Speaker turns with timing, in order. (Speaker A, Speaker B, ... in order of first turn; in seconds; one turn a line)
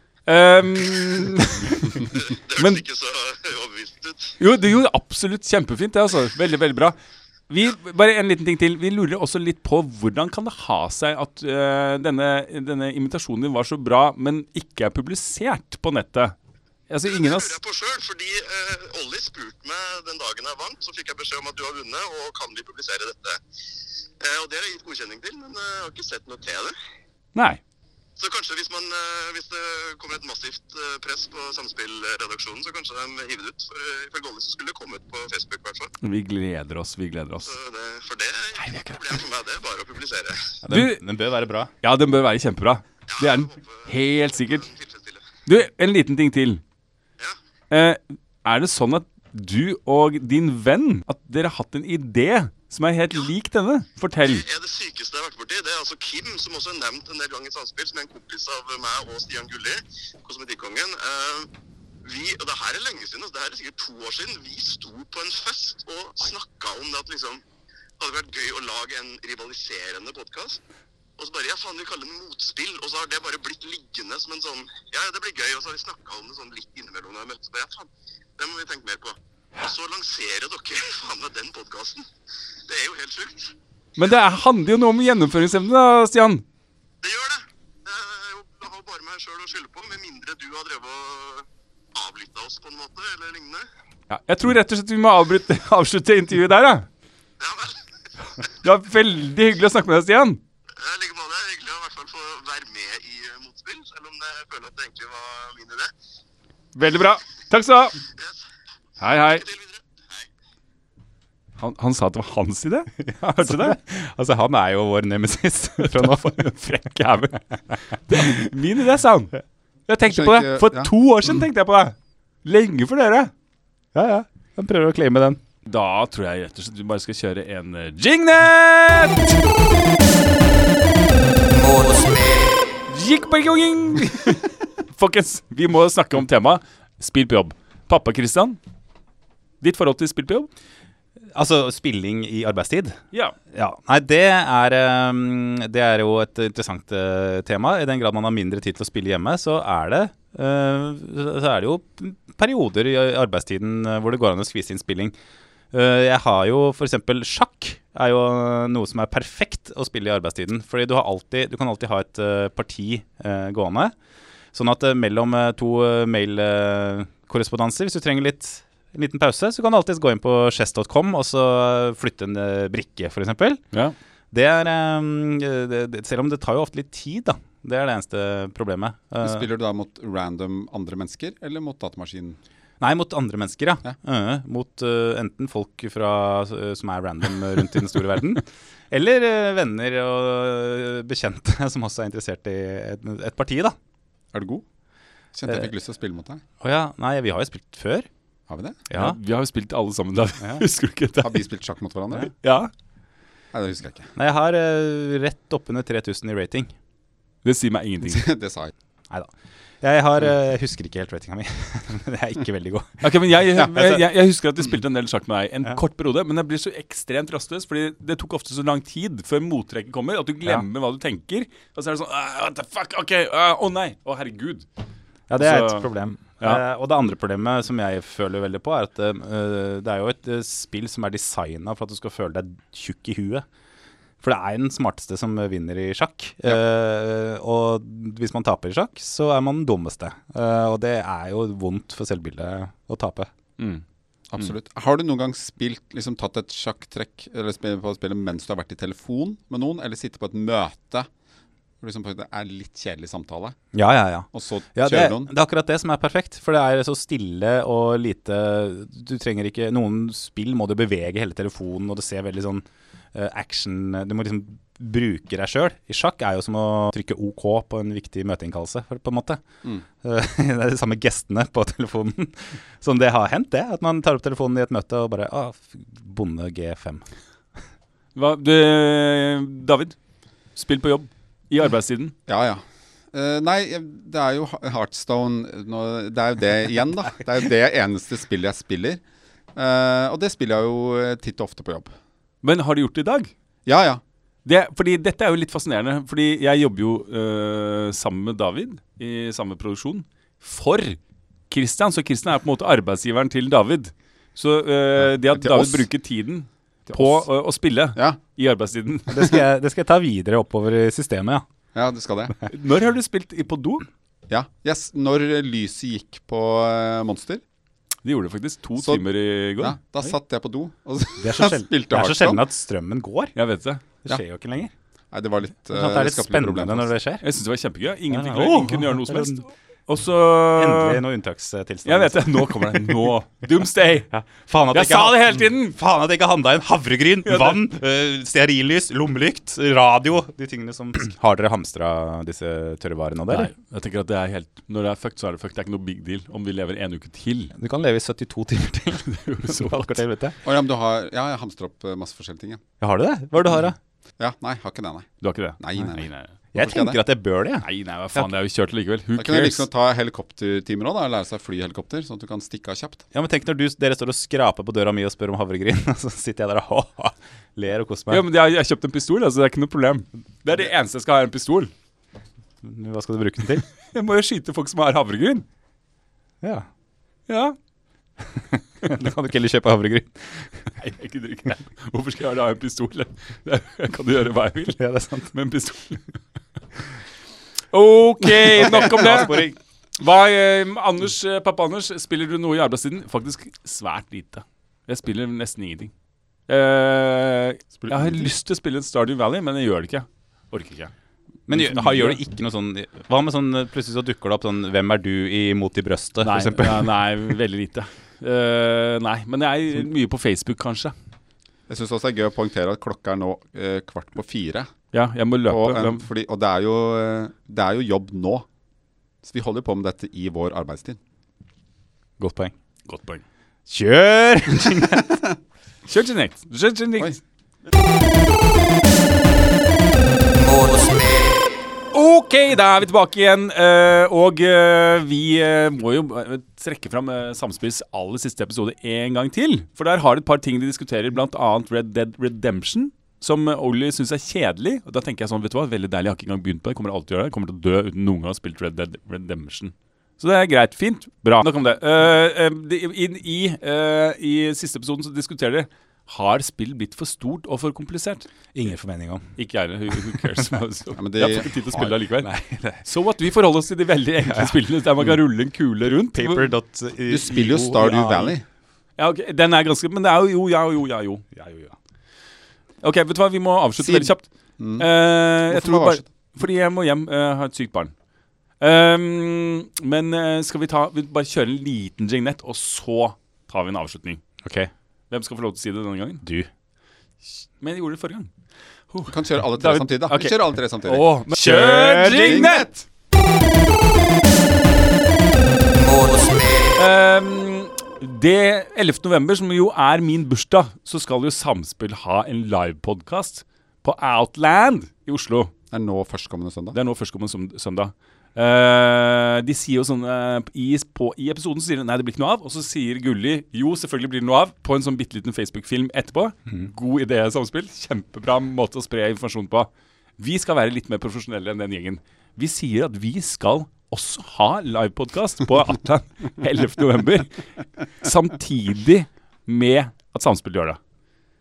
Speaker A: 0.3-2.8
Speaker B: 2.1-4.4
Speaker A: 4.4-7.0
Speaker A: 7.5-16.4
Speaker A: 16.9-17.6
Speaker B: 17.1-23.4
Speaker B: 24.2-26.8
Speaker A: 27.4-27.6
Speaker B: 28.2-35.9
Speaker A: 36.0-37.5
Speaker B: 37.4-40.6
Speaker A: 38.6-39.2
Speaker C: 40.6-41.7
Speaker A: 40.7-41.0
Speaker A: 41.8-44.7
Speaker B: 43.1-45.3
Speaker A: 45.5-46.6
Speaker A: 47.7-54.5
Speaker B: 54.2-61.5
Speaker B: 62.0-67.4
Speaker B: 68.0-70.6
Speaker B: 71.2-82.1
Speaker B: 82.7-83.5
Speaker A: 84.0-86.4
Speaker B: 87.0-93.7
Speaker A: 94.1-96.9
Speaker B: 97.4-97.9
Speaker A: 98.6-100.4
Speaker B: 100.8-105.9
Speaker A: 106.8-108.0
Speaker B: 108.1-108.4
Speaker A: 109.0-109.5
Speaker B: 109.2-110.3
Speaker A: 111.6-113.8
Speaker C: 113.0-116.5
Speaker A: 115.8-117.4
Speaker A: 118.0-119.3
Speaker A: 119.9-123.3
Speaker D: 120.1-120.9
Speaker C: 123.9-125.4
Speaker A: 125.7-129.4
Speaker A: 132.9-138.6
Speaker A: 139.6-140.5
Speaker C: 141.3-143.0
Speaker C: 143.5-155.2
Speaker C: 155.7-163.9
Speaker C: 164.5-173.6
Speaker C: 174.3-179.5
Speaker D: 179.2-182.4
Speaker C: 182.8-193.8
Speaker D: 194.3-194.6
Speaker D: 195.3-196.4
Speaker C: 196.6-198.1
Speaker D: 198.5-198.8
Speaker C: 198.9-199.2
Speaker A: 198.9-201.4
Speaker D: 201.2-202.3
Speaker A: 202.3-202.7
Speaker D: 203.5-204.1
Speaker C: 204.2-206.7
Speaker A: 207.4-208.3
Speaker D: 208.1-208.7
Speaker C: 209.8-213.1
Speaker A: 213.0-224.7
Speaker C: 213.7-214.0
Speaker C: 225.3-233.4
Speaker A: 225.3-226.6
Speaker C: 234.2-243.3
Speaker D: 244.3-251.1
Speaker D: 251.8-253.6
Speaker C: 253.7-269.4
Speaker D: 254.3-255.3
Speaker C: 270.0-277.1
Speaker A: 278.1-280.0
Speaker A: 280.6-282.1
Speaker D: 282.3-282.6
Speaker D: 283.1-289.0
Speaker D: 289.6-291.9
Speaker A: 292.4-293.3
Speaker D: 293.7-294.0
Speaker A: 294.4-301.0
Speaker A: 301.5-309.4
Speaker D: 305.3-305.9
Speaker D: 306.9-307.3
Speaker C: 309.1-311.4
Speaker D: 311.7-312.4
Speaker A: 312.5-313.9
Speaker D: 314.3-317.4
Speaker A: 318.0-319.8
Speaker D: 318.8-319.1
Speaker D: 319.6-322.4
Speaker C: 321.2-323.3
Speaker A: 323.4-323.8
Speaker C: 324.0-324.7
Speaker D: 325.1-326.9
Speaker C: 325.7-327.2
Speaker A: 327.2-331.0
Speaker C: 328.1-329.4
Speaker C: 330.6-333.1
Speaker A: 331.9-334.1
Speaker C: 334.1-343.5
Speaker A: 334.7-335.8
Speaker A: 337.3-337.6
Speaker A: 343.3-347.5
Speaker C: 347.5-350.4
Speaker A: 349.1-350.0
Speaker D: 350.4-352.6
Speaker C: 352.8-353.8
Speaker D: 354.2-355.1
Speaker A: 355.2-356.3
Speaker D: 355.6-357.0
Speaker C: 356.5-358.3
Speaker A: 357.6-359.7
Speaker D: 359.2-363.0
Speaker C: 363.1-368.2
Speaker A: 368.1-371.7
Speaker C: 372.6-373.6
Speaker A: 373.9-375.4
Speaker C: 376.4-376.7
Speaker A: 377.3-377.6
Speaker C: 378.5-380.5
Speaker A: 380.8-384.8
Speaker C: 384.8-385.3
Speaker A: 385.3-386.1
Speaker A: 387.7-389.5
Speaker C: 388.4-389.6
Speaker A: 390.0-395.9
Speaker A: 396.5-400.9
Speaker D: 397.8-398.3
Speaker C: 401.5-406.9
Speaker A: 401.5-402.2
Speaker A: 406.2-410.9
Speaker D: 411.7-414.7
Speaker A: 414.9-416.0
Speaker D: 415.5-418.5
Speaker D: 419.2-421.0
Speaker C: 422.2-422.5
Speaker A: 422.9-423.2
Speaker C: 423.7-425.2
Speaker A: 425.9-427.2
Speaker A: 431.9-458.3
Speaker C: 458.5-459.3
Speaker A: 459.4-462.3
Speaker D: 460.9-462.0
Speaker C: 462.2-462.9
Speaker A: 462.9-466.5
Speaker C: 464.2-464.6
Speaker C: 466.1-468.4
Speaker D: 467.1-468.4
Speaker A: 469.0-471.2
Speaker C: 471.3-471.7
Speaker A: 472.8-474.3
Speaker D: 473.8-474.9
Speaker A: 474.8-477.9
Speaker D: 475.4-476.1
Speaker A: 478.6-484.2
Speaker C: 484.4-484.7
Speaker A: 485.1-486.2
Speaker C: 486.2-486.5
Speaker A: 487.6-488.3
Speaker A: 488.9-492.8
Speaker D: 489.1-491.1
Speaker C: 491.3-492.6
Speaker D: 492.1-492.7
Speaker A: 496.8-505.5
Speaker D: 505.7-506.8
Speaker A: 506.7-530.8